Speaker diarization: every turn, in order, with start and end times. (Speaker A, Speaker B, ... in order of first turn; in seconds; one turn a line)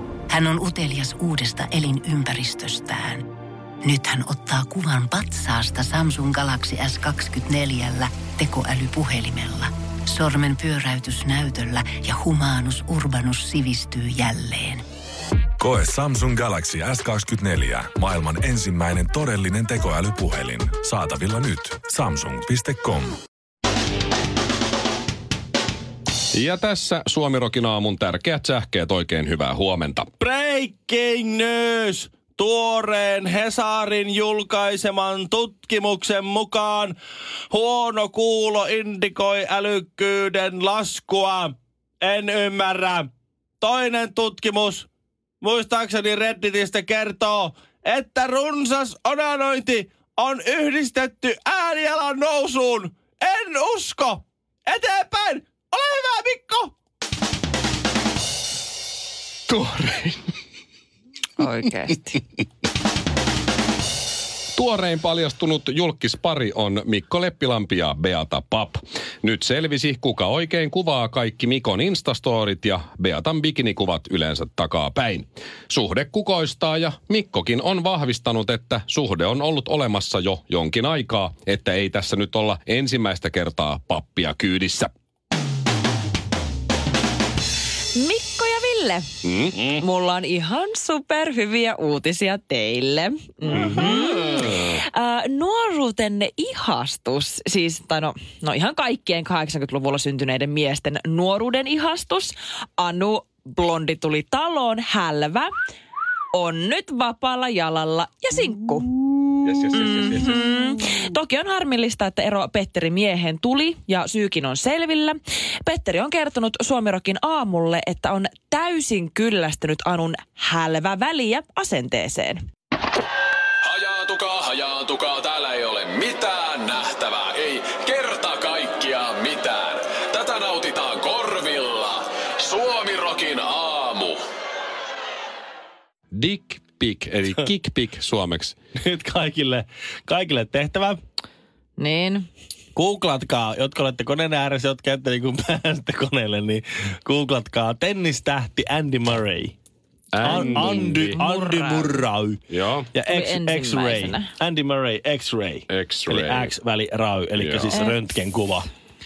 Speaker A: 0.3-3.3
Speaker A: 3.8-14.8
Speaker B: 15.6-23.2
Speaker C: 26.3-30.1
Speaker D: 30.2-37.0
Speaker D: 37.5-43.1
Speaker D: 43.6-44.9
Speaker D: 45.4-56.7
Speaker C: 59.5-60.2
Speaker E: 61.4-62.2
Speaker C: 64.5-84.9
Speaker E: 87.9-89.1
Speaker C: 89.2-89.6
Speaker D: 89.5-89.8
Speaker E: 89.7-105.5
Speaker C: 93.5-94.8
Speaker E: 106.3-122.4
Speaker C: 109.4-110.4
Speaker F: 123.7-134.2
Speaker C: 136.1-138.6
Speaker D: 138.8-141.0
Speaker E: 141.8-142.3
Speaker D: 142.8-149.6
Speaker C: 150.1-151.2
Speaker E: 150.2-151.9
Speaker D: 150.2-152.4
Speaker C: 152.5-152.9
Speaker D: 152.9-158.7
Speaker E: 153.1-154.3
Speaker C: 155.7-156.5
Speaker C: 157.4-157.8
Speaker E: 157.7-158.0